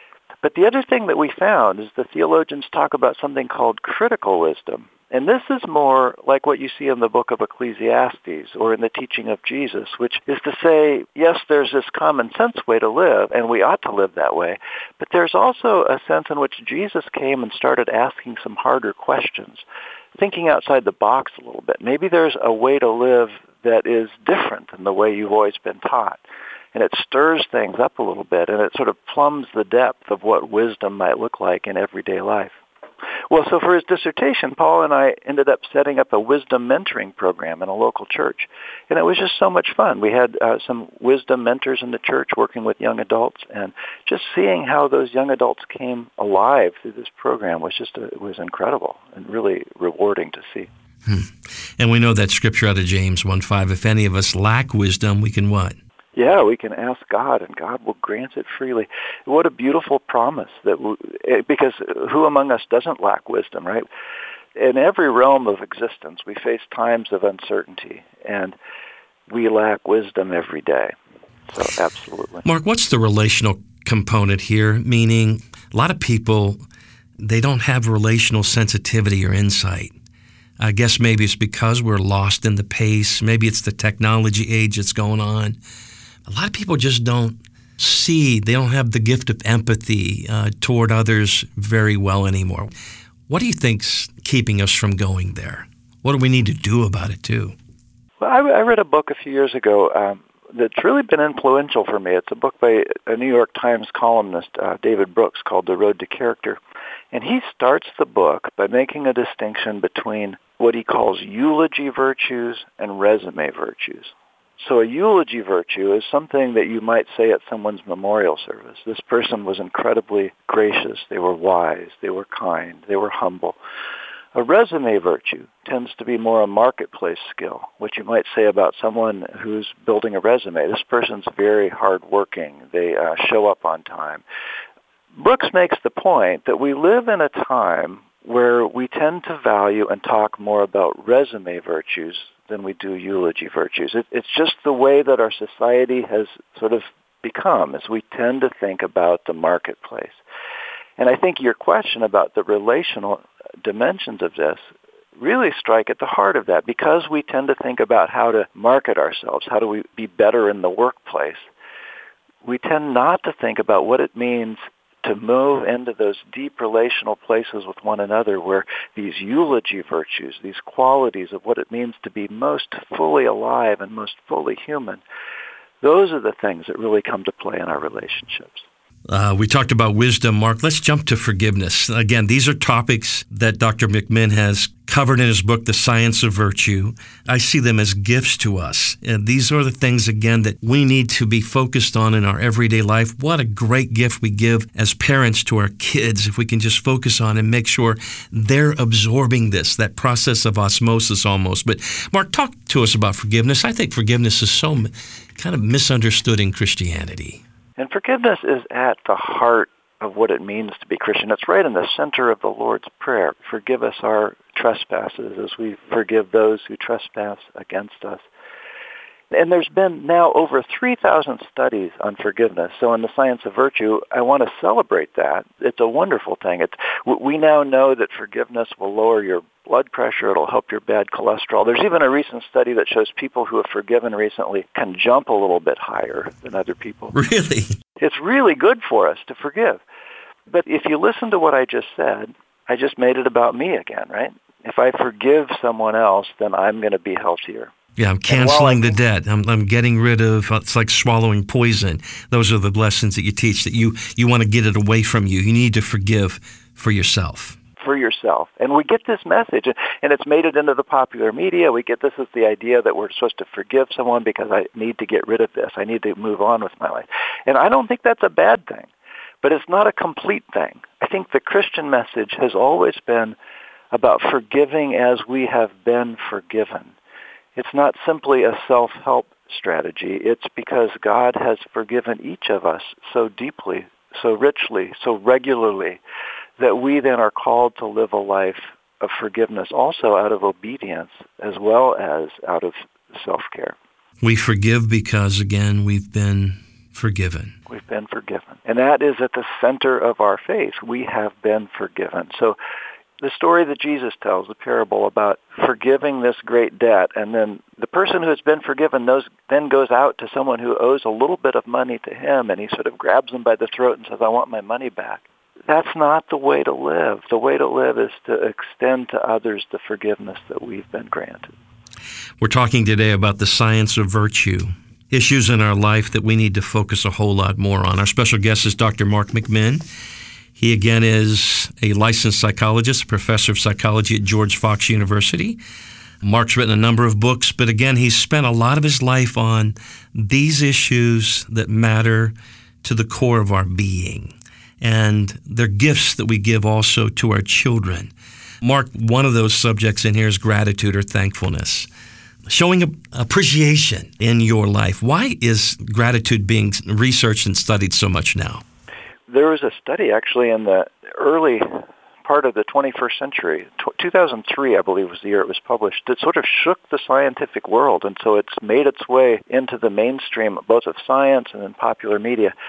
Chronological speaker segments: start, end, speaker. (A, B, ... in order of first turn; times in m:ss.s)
0:00.4-0:19.6 A
0:20.2-0:26.2 A
0:26.7-0:32.5 A
0:33.3-0:50.7 A
0:51.0-0:55.8 B
0:56.2-1:03.9 A
1:04.6-1:08.6 A
1:09.3-1:10.9 A
1:11.5-1:12.4 A
1:12.4-1:16.6 B
1:17.2-1:19.9 B
1:20.6-1:25.6 B
1:26.3-1:32.7 B
1:33.3-1:37.5 B
1:38.2-1:46.6 A
1:47.1-2:03.6 A
2:04.3-2:14.2 A
2:15.1-2:30.2 A
2:31.0-2:34.6 A
2:35.2-2:41.5 A
2:42.4-2:55.0 A
2:55.8-2:58.6 A
2:59.1-3:27.4 B
3:27.8-3:38.2 A
3:39.3-3:57.1 A
3:57.1-3:57.8 B
3:58.0-3:59.8 A
4:00.5-4:07.7 A
4:08.0-4:17.6 B
4:08.3-4:08.9 A
4:17.8-4:28.9 A
4:29.4-4:33.4 A
4:33.9-4:36.9 A
4:37.5-4:46.0 A
4:46.6-4:53.8 A
4:54.2-4:57.5 B
4:57.7-5:02.6 A
5:03.2-5:21.5 A
5:22.4-5:29.8 B
5:30.6-5:35.6 B
5:36.2-5:51.9 B
5:52.5-5:58.6 B
5:59.3-6:12.5 A